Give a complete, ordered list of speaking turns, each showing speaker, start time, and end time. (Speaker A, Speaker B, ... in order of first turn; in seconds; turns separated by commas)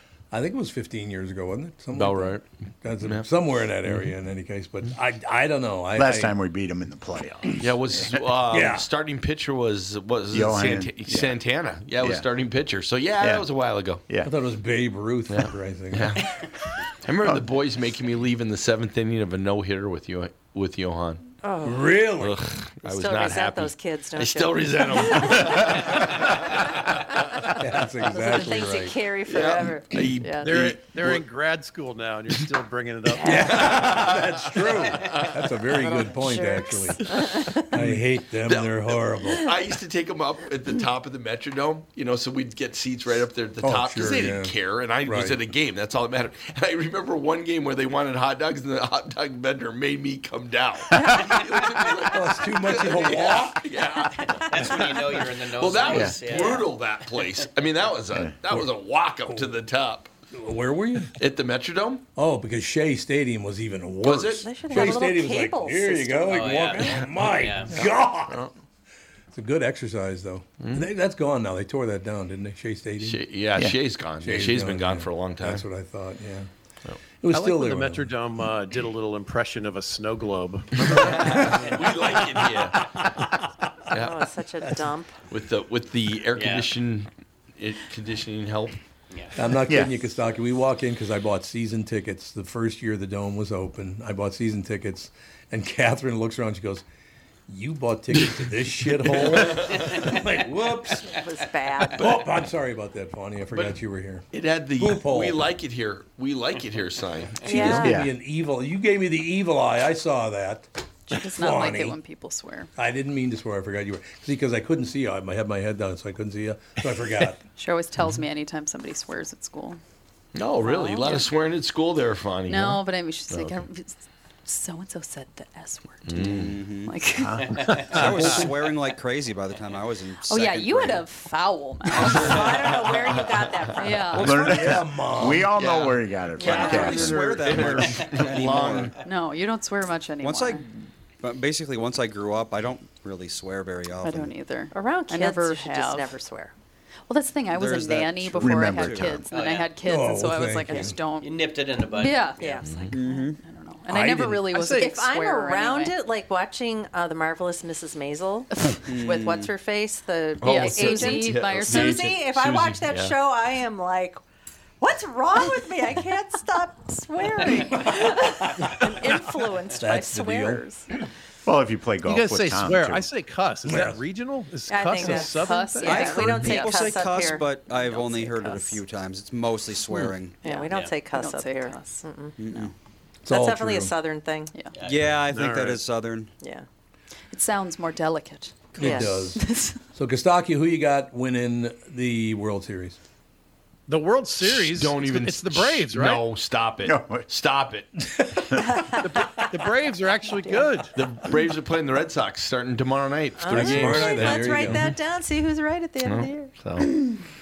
Speaker A: 0.3-6.3, Speaker B: 1.9-2.5, Speaker B: 3.0-3.3, Speaker B: 3.9-4.1, Speaker C: 6.0-7.6, Speaker B: 7.6-14.1, Speaker A: 8.5-8.9, Speaker C: 10.3-11.4, Speaker C: 12.0-12.2, Speaker C: 13.2-13.5, Speaker A: 14.2-16.2, Speaker B: 15.3-16.3, Speaker B: 17.0-21.2, Speaker D: 21.4-22.1, Speaker A: 21.6-22.4, Speaker B: 22.2-27.5, Speaker D: 22.8-26.1, Speaker A: 27.6-29.0, Speaker D: 28.1-30.5, Speaker B: 29.3-31.2, Speaker E: 30.4-33.6, Speaker D: 33.1-33.5, Speaker A: 33.2-37.0, Speaker B: 33.3-35.4, Speaker D: 36.0-37.7, Speaker A: 37.7-39.5, Speaker B: 37.7-60.1, Speaker A: 43.6-45.4, Speaker A: 52.1-53.7, Speaker F: 54.5-57.5, Speaker C: 55.9-56.2, Speaker D: 56.4-56.6, Speaker A: 59.3-59.5, Speaker A: 60.3-61.1, Speaker B: 61.2-62.0, Speaker A: 62.2-68.4, Speaker B: 64.0-64.8, Speaker D: 64.4-66.7, Speaker F: 66.3-67.7, Speaker B: 66.9-68.5, Speaker A: 69.3-73.2, Speaker B: 70.6-70.9, Speaker B: 73.0-75.7, Speaker A: 74.2-76.5, Speaker A: 77.2-78.1, Speaker E: 77.3-81.2, Speaker B: 80.8-83.0, Speaker A: 81.1-83.1, Speaker B: 83.9-84.3, Speaker D: 84.0-85.2, Speaker B: 85.3-88.8, Speaker F: 86.3-86.7, Speaker A: 89.3-96.8, Speaker A: 97.5-101.2, Speaker B: 98.9-100.0, Speaker D: 101.1-102.2, Speaker A: 102.0-104.3, Speaker B: 103.5-103.8, Speaker B: 104.3-107.8, Speaker A: 104.8-105.4, Speaker D: 107.5-108.0, Speaker A: 107.5-110.7, Speaker C: 107.8-108.1, Speaker G: 111.1-112.7, Speaker A: 111.2-112.0, Speaker A: 112.8-117.4, Speaker G: 117.6-119.8, Speaker B: 120.3-123.6, Speaker G: 120.6-121.3, Speaker G: 122.5-127.6, Speaker B: 126.0-126.6, Speaker H: 126.2-127.0, Speaker C: 127.2-127.7, Speaker E: 127.7-128.4, Speaker H: 127.9-131.1, Speaker G: 130.2-132.3, Speaker B: 132.0-133.7, Speaker D: 132.0-134.6, Speaker H: 132.1-132.6, Speaker G: 133.8-134.4, Speaker H: 134.1-134.9, Speaker C: 134.2-137.3, Speaker A: 134.3-135.5, Speaker B: 135.5-138.9, Speaker H: 136.5-138.9, Speaker D: 136.5-136.8, Speaker G: 139.0-140.6, Speaker H: 140.2-144.3, Speaker G: 144.0-146.1, Speaker D: 144.7-146.5, Speaker G: 147.1-151.4, Speaker H: 147.5-149.2, Speaker C: 148.4-149.3, Speaker F: 149.3-149.7, Speaker A: 149.8-151.0, Speaker F: 151.2-152.6, Speaker G: 151.9-152.4, Speaker D: 152.4-153.0, Speaker B: 152.7-152.9, Speaker H: 152.9-153.4, Speaker G: 153.0-155.9, Speaker E: 154.5-154.9, Speaker D: 154.5-158.5, Speaker G: 158.6-159.4, Speaker H: 158.8-159.5, Speaker D: 159.1-164.2, Speaker G: 160.3-162.2, Speaker B: 160.4-163.2, Speaker D: 164.8-170.9, Speaker A: 167.9-169.1, Speaker A: 169.7-170.6, Speaker C: 171.4-173.1, Speaker E: 172.1-176.1, Speaker A: 173.6-174.0, Speaker D: 174.7-178.8, Speaker G: 175.0-177.1, Speaker H: 175.8-180.4, Speaker D: 180.4-182.4, Speaker G: 180.4-182.7, Speaker F: 180.7-180.9, Speaker H: 182.4-182.7, Speaker A: 183.3-183.9, Speaker D: 183.3-184.5, Speaker F: 184.8-185.2, Speaker H: 184.8-186.3, Speaker E: 185.3-185.8, Speaker G: 187.3-189.8, Speaker A: 188.8-193.0, Speaker D: 188.8-189.2, Speaker E: 193.9-196.2, Speaker B: 194.4-197.9, Speaker C: 196.8-197.3, Speaker A: 198.0-199.6, Speaker E: 199.0-200.9, Speaker D: 200.4-200.7, Speaker B: 200.9-204.9, Speaker D: 203.4-206.5, Speaker A: 203.5-204.9, Speaker B: 206.0-206.9